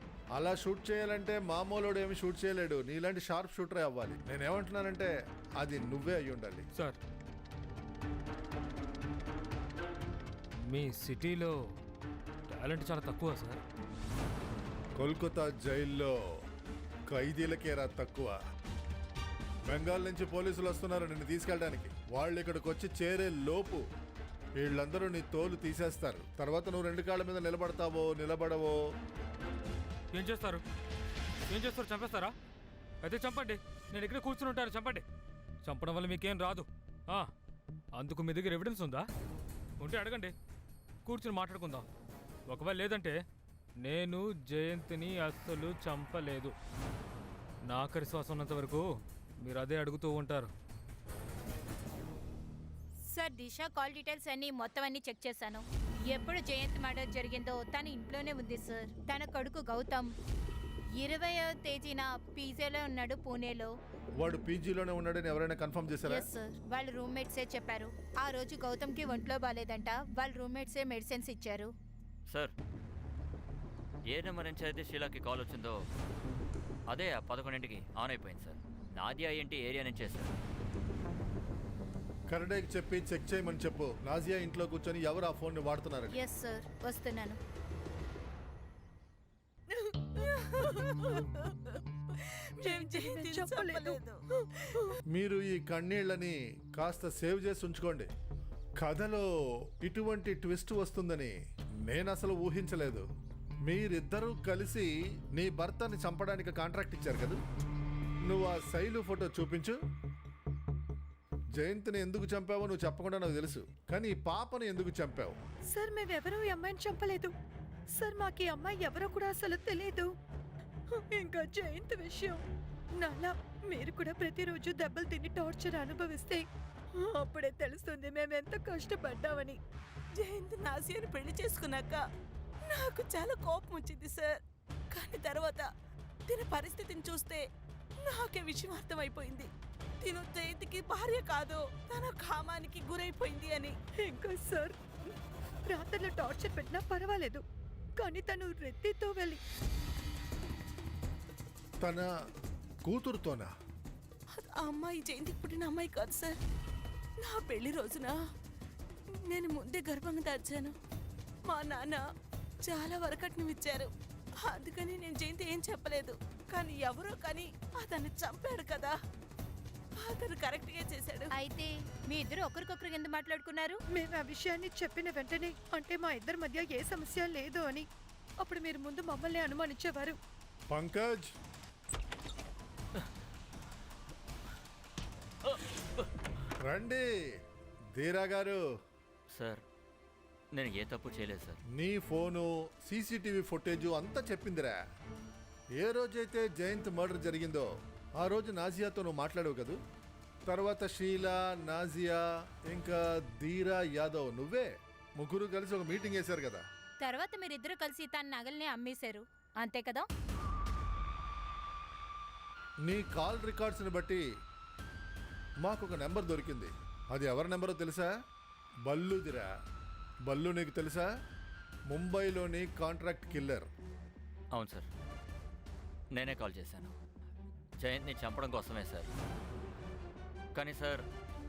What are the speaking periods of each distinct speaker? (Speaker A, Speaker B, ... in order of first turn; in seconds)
Speaker A: 0.3-6.6, 15.0-16.2, 17.1-18.4, 19.7-23.8, 24.6-28.8, 64.2-66.2, 82.3-86.1, 95.1-98.1, 98.8-103.1, 103.7-107.4, 108.2-109.8, 111.5-115.4, 151.8-152.1, 152.8-153.5, 180.7-181.3, 186.6-187.1, 187.9-188.6, 191.7-194.8, 195.8-197.7, 198.2-199.8, 200.5-206.6, 212.8-214.2, 215.6-218.1, 218.9-219.5, 220.3-221.1, 221.9-223.7
Speaker B: 10.6-11.6, 12.5-13.6, 30.1-30.6, 31.5-32.3, 33.0-35.0, 35.6-37.3, 37.9-39.1, 39.8-40.3, 41.0-41.9, 42.5-43.1, 43.8-46.5, 47.7-48.9, 49.4-50.5
Speaker C: 53.1-60.1, 61.0-63.7, 66.1-71.7, 86.1-87.4, 171.3-173.8, 207.0-210.1
Speaker D: 74.1-75.8, 76.9-80.3, 189.3-189.6, 190.5-191.6, 224.5-224.8, 226.1-226.9, 227.8-229.1, 230.5-231.0
Speaker E: 89.7-94.2, 130.2-132.0, 132.7-134.4, 134.9-135.6, 136.3-137.4, 138.1-139.5, 140.0-143.8, 154.4-156.3, 157.2-158.1, 159.3-160.7, 161.5-162.0, 162.6-163.9, 164.4-168.9, 170.0-171.3
Speaker F: 92.6-94.0, 115.7-117.3, 117.9-120.1, 121.0-122.4, 123.0-129.6, 143.9-144.7, 145.7-147.4, 148.0-149.4, 173.9-177.9, 178.4-180.2